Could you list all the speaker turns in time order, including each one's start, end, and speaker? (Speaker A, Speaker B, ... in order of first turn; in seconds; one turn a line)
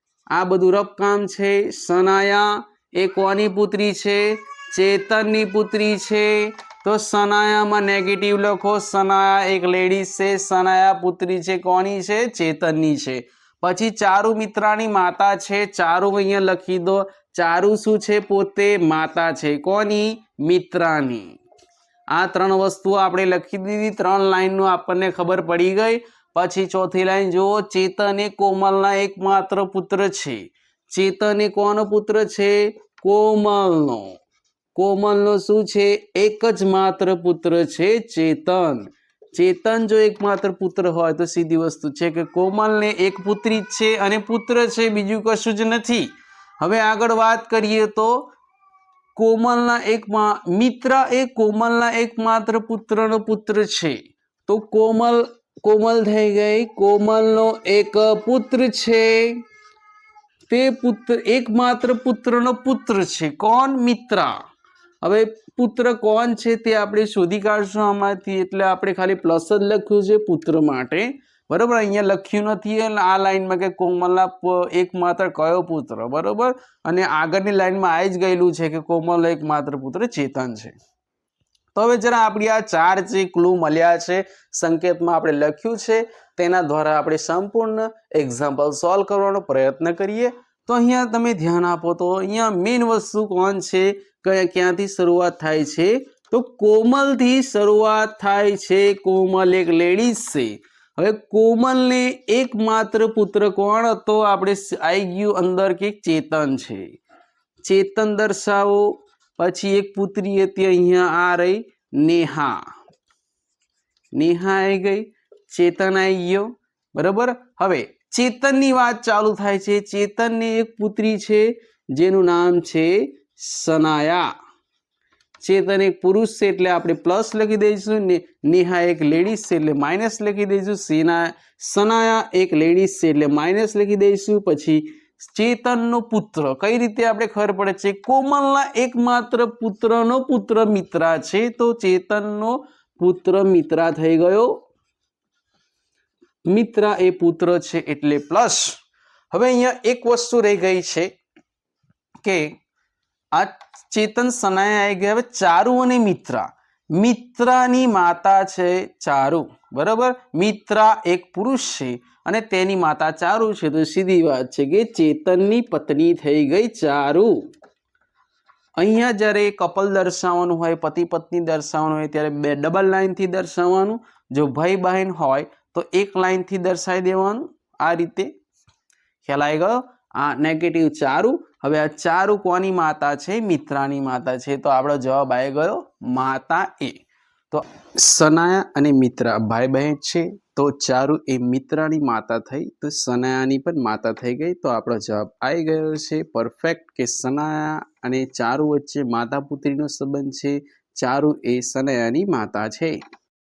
Speaker A: 0.3-21.3
Speaker A: 22.1-34.2
Speaker A: 34.8-46.1
Speaker A: 46.6-48.3
Speaker A: 49.2-59.4
Speaker A: 60.5-64.3
Speaker A: 65.0-80.8
Speaker A: 81.8-106.9
Speaker A: 107.6-112.6
Speaker A: 114.2-124.3
Speaker A: 125.4-144.6
Speaker A: 146.5-148.8
Speaker A: 149.3-151.1
Speaker A: 152.2-152.6
Speaker A: 153.3-167.3
Speaker A: 168.8-178.3
Speaker A: 179.2-187.0
Speaker A: 187.5-203.0